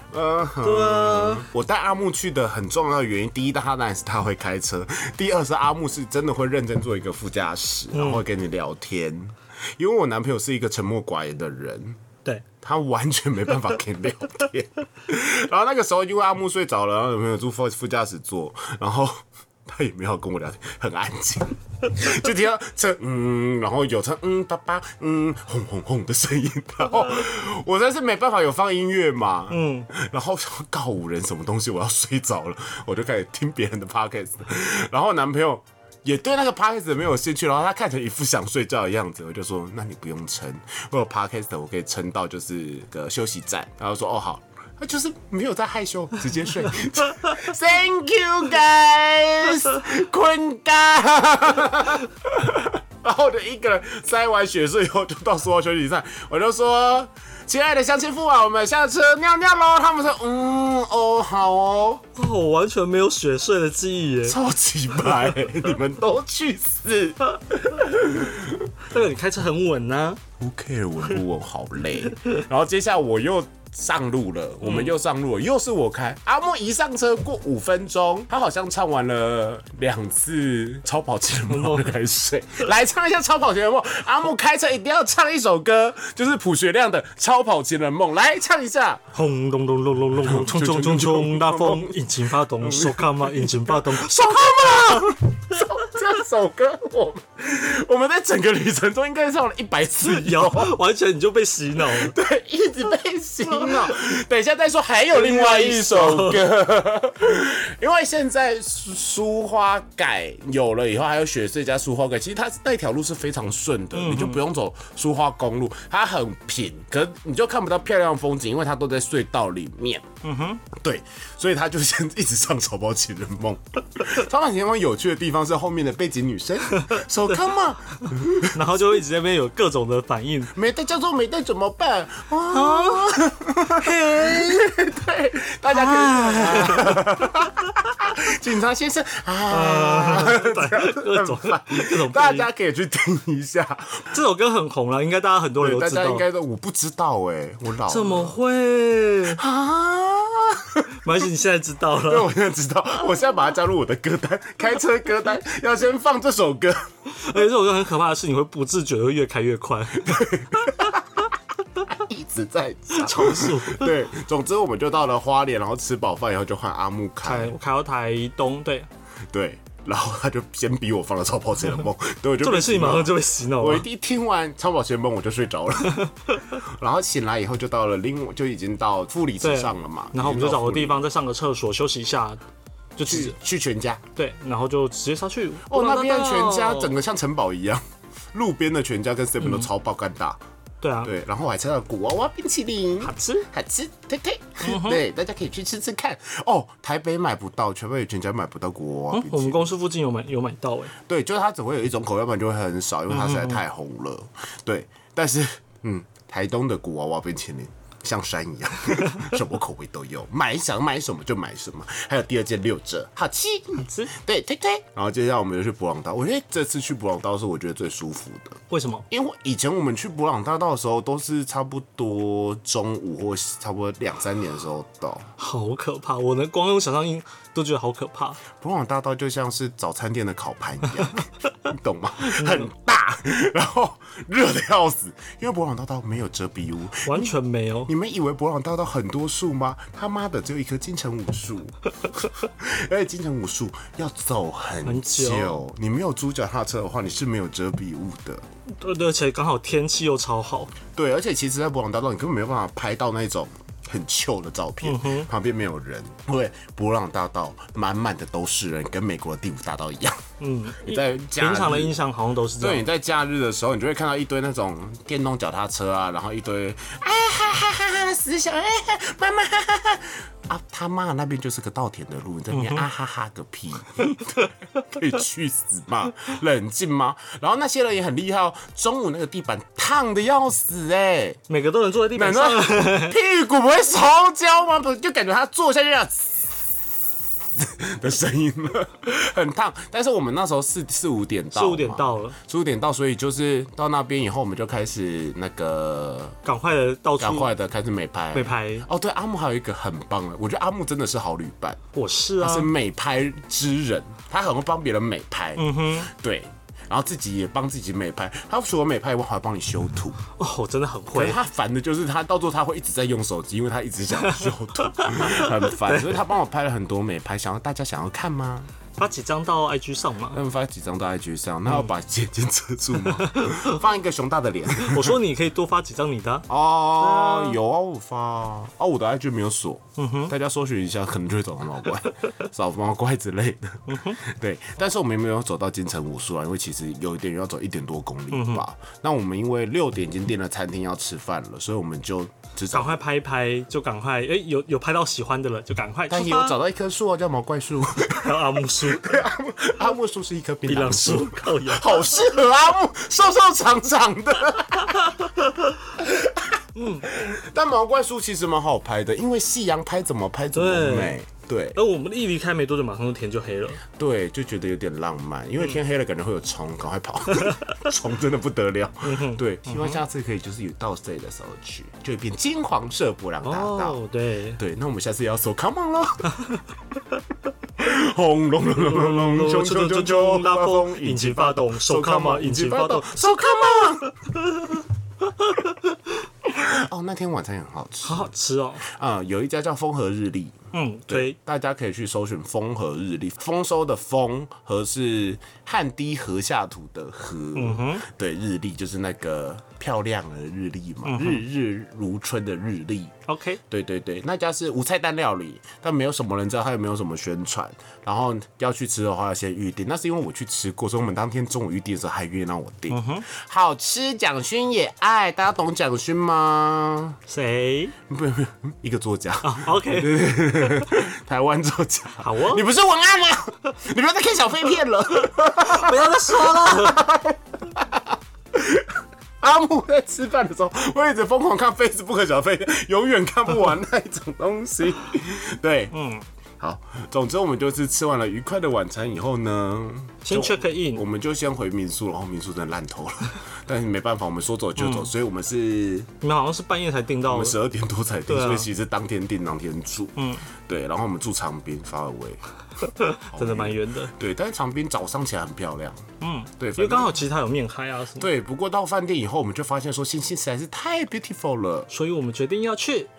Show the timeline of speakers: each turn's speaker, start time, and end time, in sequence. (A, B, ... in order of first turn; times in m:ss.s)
0:00.1-0:12.0 A
0:00.6-0:01.5 B
0:07.9-0:08.2 B
0:12.6-1:02.0 A
0:29.5-0:29.9 B
1:02.2-1:04.4 B
1:04.2-1:08.7 A
1:08.9-1:10.2 B
1:10.4-1:29.0 A
1:14.6-1:15.0 B
1:21.5-1:21.9 B
1:29.1-1:35.2 B
1:30.2-1:40.8 A
1:40.0-1:42.2 B
1:41.8-2:00.1 A
1:43.6-1:43.9 B
1:45.1-1:46.4 B
1:53.9-1:54.4 B
2:00.2-2:00.6 B
2:00.7-2:08.8 A
2:08.0-2:10.5 B
2:10.5-2:24.1 A
2:12.5-2:13.1 B
2:13.7-2:14.7 B
2:15.7-2:17.3 B
2:19.5-2:22.5 B
2:24.1-2:26.3 B
2:25.6-2:28.4 A
2:27.9-2:29.4 B
2:29.3-2:30.9 A
2:31.0-2:32.3 B
2:32.0-2:36.8 A
2:37.1-2:40.7 B
2:40.0-2:41.2 A
2:41.9-2:47.6 A
2:42.9-2:43.9 B
2:47.2-2:48.9 B
2:49.3-2:56.0 A
2:52.4-2:53.8 B
2:55.9-2:56.4 B
2:56.6-3:01.0 A
2:59.4-3:02.4 B
3:03.0-3:03.4 B
3:03.0-3:04.0 A
3:04.2-3:07.0 B
3:05.7-3:07.8 A
3:08.3-3:10.4 A
3:09.4-3:09.7 B
3:10.8-3:11.1 B
3:11.0-3:19.7 A
3:13.0-3:13.5 B
3:14.6-3:15.0 B
3:19.1-3:20.9 B
3:21.0-3:45.3 A
3:23.1-3:23.6 B
3:33.8-3:34.1 B
3:38.7-3:39.1 B
3:45.4-3:48.4 B
3:48.5-3:57.3 A
3:52.2-3:52.7 B
3:57.0-3:57.9 B
3:57.9-4:08.5 A
4:04.8-4:05.6 B
4:08.8-4:10.7 B
4:10.9-4:20.2 A
4:14.8-4:15.3 B
4:20.4-4:22.8 B
4:20.8-4:22.0 A
4:22.6-4:41.4 A
4:32.5-4:32.9 B
4:41.5-4:43.2 B
4:42.1-4:46.9 A
4:47.6-4:56.4 A
4:51.5-4:52.4 B
4:56.4-4:57.5 B
4:57.2-5:01.8 A
4:58.3-4:58.9 B
5:01.9-5:02.7 B
5:02.4-5:10.2 A
5:05.6-5:06.1 B
5:10.4-5:11.4 B
5:11.1-5:18.7 A
5:14.2-5:16.2 B
5:19.0-5:20.4 B
5:20.3-5:25.2 A
5:23.0-5:23.8 B
5:24.8-5:26.5 B
5:26.5-5:43.0 A
5:27.0-5:27.6 B
5:30.0-5:30.3 B
5:33.9-5:34.2 B
5:38.3-5:38.6 B
5:42.7-5:46.6 B
5:46.1-5:55.3 A
5:48.1-5:49.2 B
5:50.7-5:52.1 B
5:56.0-6:01.8 A
5:56.8-5:57.1 B
6:00.5-6:01.2 B
6:01.8-6:03.8 B
6:03.9-6:14.0 A
6:09.0-6:10.0 B
6:13.4-6:14.6 B
6:14.6-6:16.3 A
6:17.8-6:24.1 A
6:18.8-6:24.8 B
6:25.4-6:25.7 B
6:26.4-6:28.3 A
6:28.0-6:28.9 B
6:28.8-6:43.1 A
6:30.7-6:31.4 B
6:37.6-6:38.1 B
6:41.1-6:41.4 B
6:43.3-6:43.6 B
6:43.7-6:57.2 A
6:52.9-6:53.3 B
6:57.3-6:57.9 B
6:58.1-7:15.9 A
6:59.4-7:00.2 B
7:02.2-7:02.6 B
7:05.6-7:07.0 B
7:15.9-7:16.2 B
7:16.6-7:26.1 A
7:20.2-7:21.0 B
7:24.8-7:25.1 B
7:26.2-7:27.6 B
7:27.3-7:32.4 A
7:28.3-7:28.7 B
7:30.2-7:30.5 B
7:32.9-7:34.1 B
7:33.3-7:36.0 A
7:36.2-7:38.3 B
7:36.6-7:37.1 A
7:38.2-7:41.9 A
7:41.9-7:43.1 B